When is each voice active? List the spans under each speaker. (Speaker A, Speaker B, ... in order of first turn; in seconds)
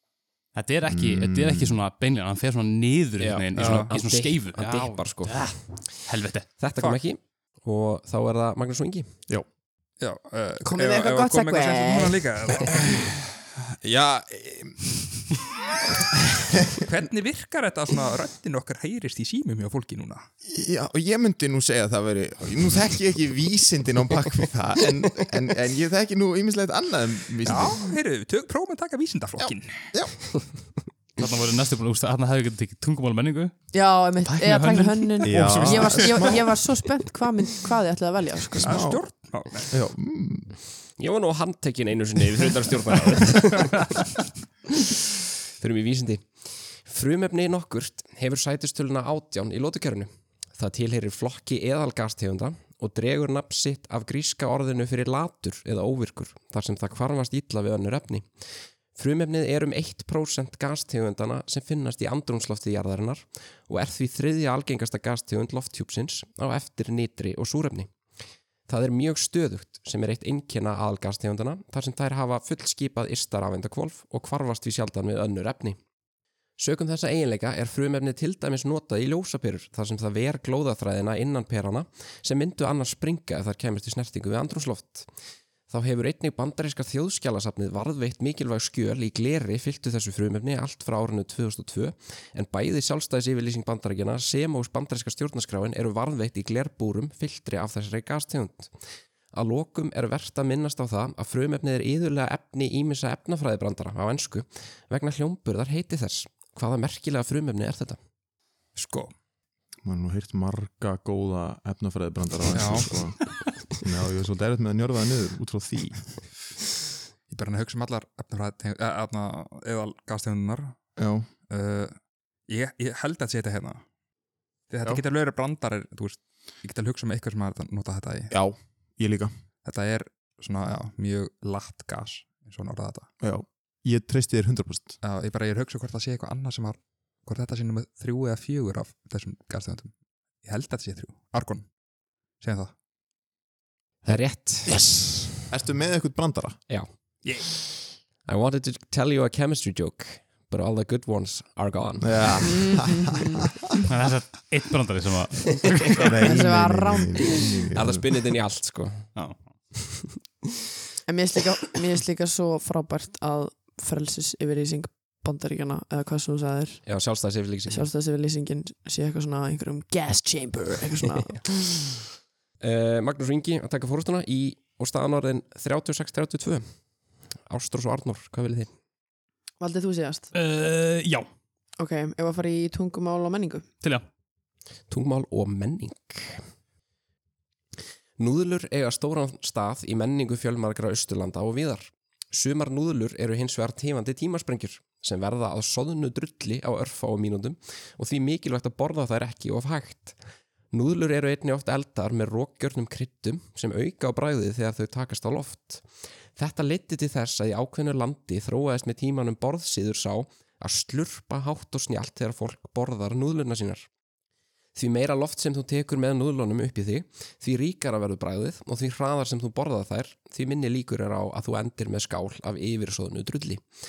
Speaker A: 0.5-6.5, 31.2-36.4, 153.9-156.2, 159.1-159.5, 180.3-181.3
Speaker B: 0.9-1.8, 13.8-15.0, 20.4-27.9, 29.4-30.2, 35.2-36.4, 38.6-39.0, 39.7-40.5, 109.8-116.2, 121.0-121.3, 128.3-129.3, 133.2-135.0, 145.5-146.6, 152.0-152.9, 155.9-158.1
Speaker C: 3.2-6.0, 6.6-9.1, 41.0-44.2, 45.6-58.3, 58.9-67.9, 68.7-75.8, 76.6-85.1, 85.7-98.7, 99.3-108.0, 144.0-145.3, 147.4-152.6, 157.7-159.1, 159.7-160.2, 166.8-167.9, 172.6-176.7, 177.5-178.7, 184.9-186.4, 188.2-200.2, 200.7-213.9, 214.7-223.7
Speaker D: 3.5-3.9, 10.0-13.1, 16.8-20.2, 27.4-29.9, 38.6-39.7, 108.7-109.1, 112.5-113.0, 117.3-120.8, 121.5-123.8, 124.7-128.3, 129.6-133.1, 135.0-141.8, 142.4-142.7
Speaker E: 10.6-12.3, 33.7-38.8, 152.5-153.4, 156.2-157.4, 161.1-166.8, 167.7-171.5, 179.6-180.3, 181.8-183.7